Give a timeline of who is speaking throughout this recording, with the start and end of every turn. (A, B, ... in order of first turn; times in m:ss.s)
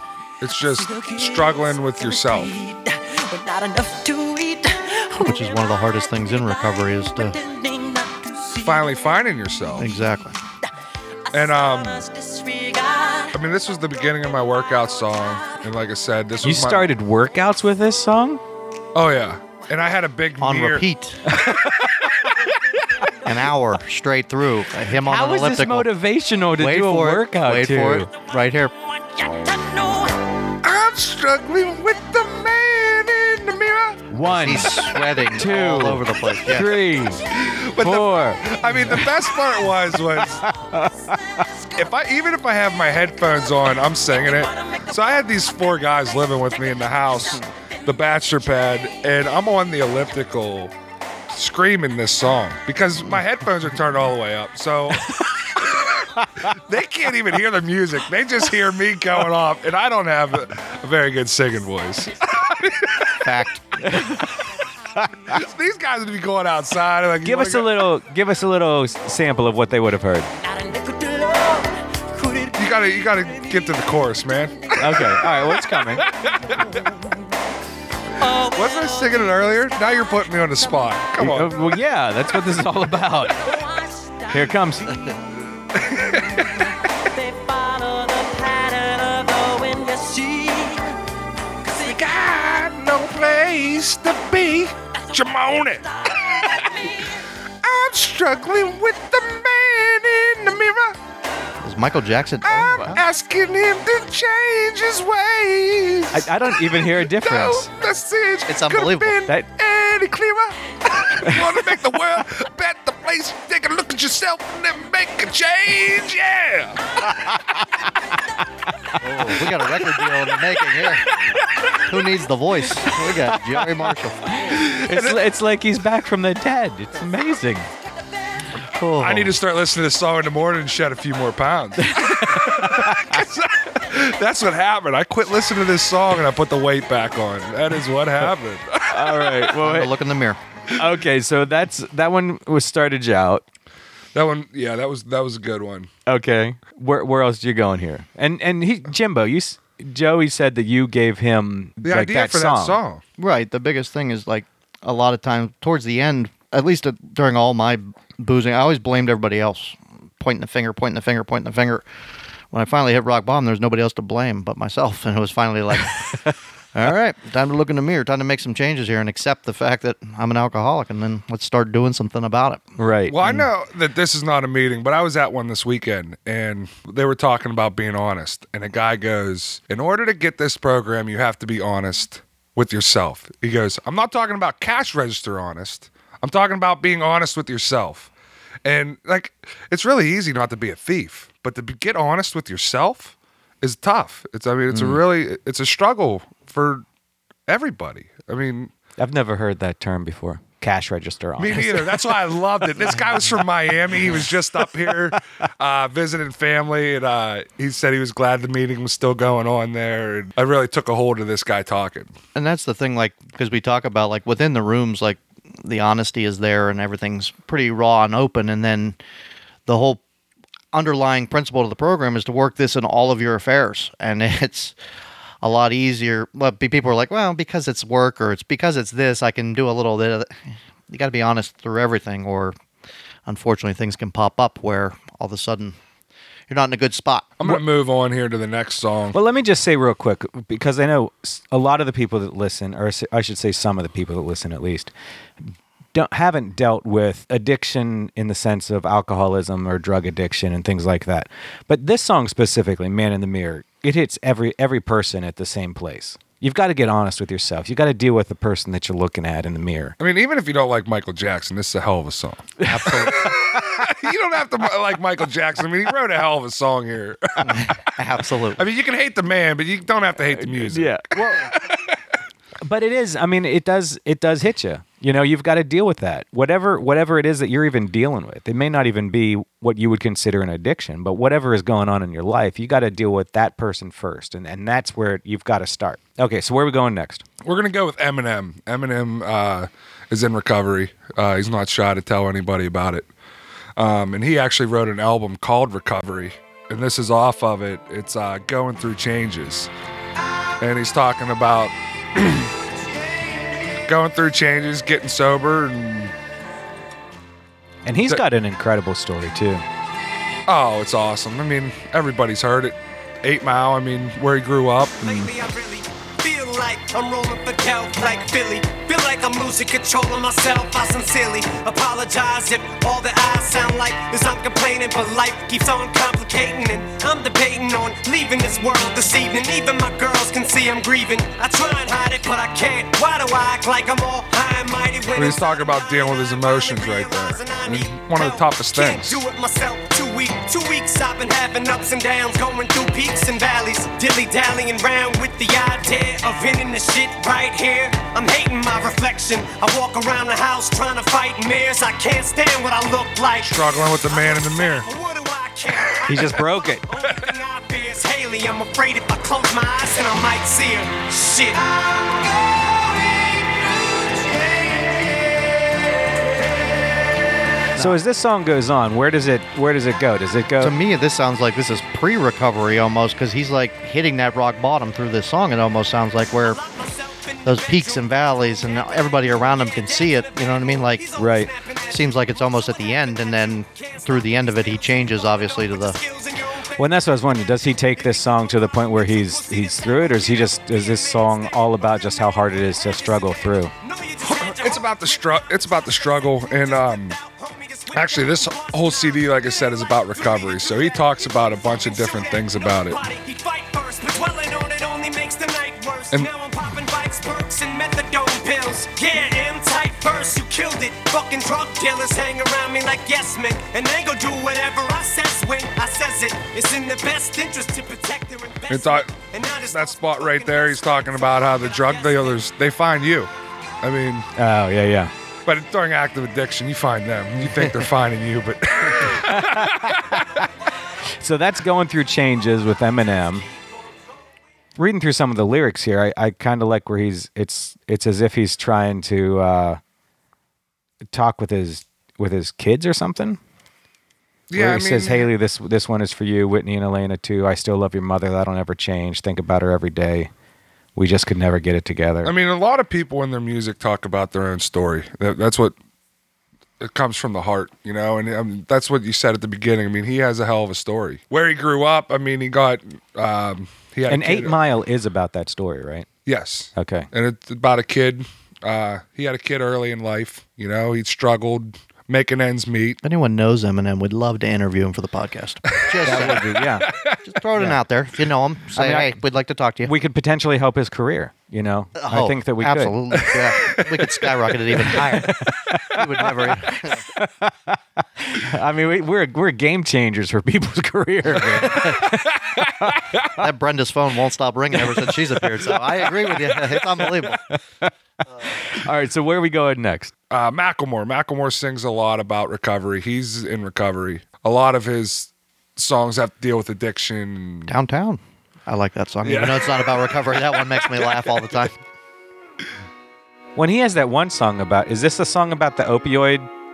0:00.4-0:02.5 A
0:00.6-0:08.9 B
0:05.2-0:07.4 C
0:08.6-0:09.9 A
0:09.8-0:10.4 C
0:11.3-0:13.4 B
0:11.3-0:12.1 A
0:13.3-0:16.9 A
0:15.1-0:15.6 B
0:16.4-0:18.4 D
0:18.9-0:22.5 A
0:20.4-0:21.3 C
0:21.4-0:21.9 D
0:23.2-0:25.9 C
0:25.0-0:28.1 D
0:26.6-0:28.7 C
0:28.8-0:30.3 B
0:30.6-0:34.0 A
0:34.1-0:37.2 D
0:34.3-0:36.7 C
0:37.3-0:40.4 A
0:37.8-0:39.3 D
0:40.2-0:41.5 D
0:40.4-0:41.9 B
0:41.8-0:50.7 A
0:44.2-0:44.9 B
0:46.7-0:47.9 B
0:51.3-1:03.3 A
1:03.2-1:04.0 C
1:03.8-1:04.3 D
1:05.3-1:07.9 A
1:07.2-1:10.3 D
1:10.4-1:14.0 B
1:12.5-1:15.4 A
1:14.8-1:16.0 D
1:14.8-1:17.4 B
1:16.0-1:16.8 A
1:18.2-1:21.8 B
1:18.5-1:21.6 A
1:21.2-1:23.5 D
1:23.2-1:25.3 B
1:24.3-1:25.0 D
1:25.8-1:26.5 A
1:26.0-1:30.9 B
1:31.6-1:32.2 B
1:31.7-1:36.6 A
1:35.0-1:35.2 B
1:36.1-1:37.1 B
1:37.6-1:41.0 A
1:41.6-1:43.0 C
1:42.4-1:57.4 A
1:42.5-1:43.0 D
1:46.1-1:47.7 D
1:48.5-1:49.3 C
1:59.0-2:01.1 C
2:01.1-2:01.4 A
2:01.9-2:04.5 C
2:03.0-2:03.6 D
2:04.4-2:07.7 D
2:04.5-2:05.2 A
2:08.7-2:09.4 C
2:09.0-2:19.5 A
2:11.8-2:13.2 D
2:18.9-2:19.9 D
2:19.6-2:20.4 C
2:20.7-2:23.4 D
2:24.1-2:25.9 A
2:26.1-2:32.8 D
2:31.8-2:33.0 A
2:33.2-2:41.8 C
2:42.5-2:52.6 C
2:52.8-2:53.3 D
2:53.1-3:08.1 A
3:08.6-3:16.8 A
3:14.7-3:15.0 D
3:17.5-3:18.7 A
3:19.0-3:22.0 D
3:21.4-3:32.1 A
3:32.4-3:39.0 C
3:39.7-3:40.0 C
3:40.7-3:44.8 C
3:45.4-3:52.6 C
3:53.3-3:55.8 C
3:56.5-3:57.3 C
3:57.4-3:59.2 A
3:59.1-4:20.0 D
4:20.0-4:27.8 A
4:22.6-4:23.6 D
4:22.6-4:23.3 C
4:27.4-4:28.6 C
4:28.6-4:32.0 A
4:30.2-4:31.3 D
4:32.6-4:47.2 D
4:47.4-4:53.1 A
4:53.8-4:59.7 A
5:00.6-5:02.5 A
5:03.9-5:06.1 A
5:07.9-5:09.6 D
5:10.5-5:15.3 A
5:15.0-6:01.8 E
5:35.2-5:39.2 A
5:53.4-5:54.9 A
5:56.1-5:56.8 D
6:02.6-6:03.4 E
6:04.2-6:04.9 E
6:07.8-6:10.8 D
6:10.6-6:16.6 C
6:16.4-6:26.8 E
6:17.4-6:21.1 C
6:21.2-6:21.5 D
6:21.9-6:26.0 C
6:26.8-6:33.7 D
6:29.0-7:02.5 E
6:34.2-6:37.2 A
6:37.9-6:43.0 A
6:58.7-6:59.1 A
6:59.7-7:04.3 A
7:04.4-7:05.1 D
7:05.5-7:10.2 A
7:09.1-7:10.5 D
7:11.2-7:13.5 D
7:14.8-7:19.8 D
7:21.1-7:23.4 D
7:24.5-7:25.3 A
7:24.5-7:30.3 D
7:31.0-7:32.3 D
7:32.2-7:35.8 A
7:36.8-7:44.6 A
7:44.1-7:46.1 D
7:46.3-7:53.0 A
7:46.8-7:47.1 D
7:53.0-7:56.4 C
7:55.9-7:57.2 A
7:56.0-7:56.9 D
7:57.2-7:59.9 C
7:58.7-7:59.2 D
7:59.8-8:03.3 D
8:02.0-8:07.1 C
8:03.7-8:04.3 A
8:05.1-8:13.2 D
8:11.3-8:12.0 C
8:12.6-8:13.0 A
8:13.4-8:17.4 C
8:14.8-8:17.9 D
8:18.4-8:20.1 D
8:20.3-8:27.7 A
8:27.7-8:31.7 C
8:29.2-8:31.7 A
8:33.6-8:36.5 D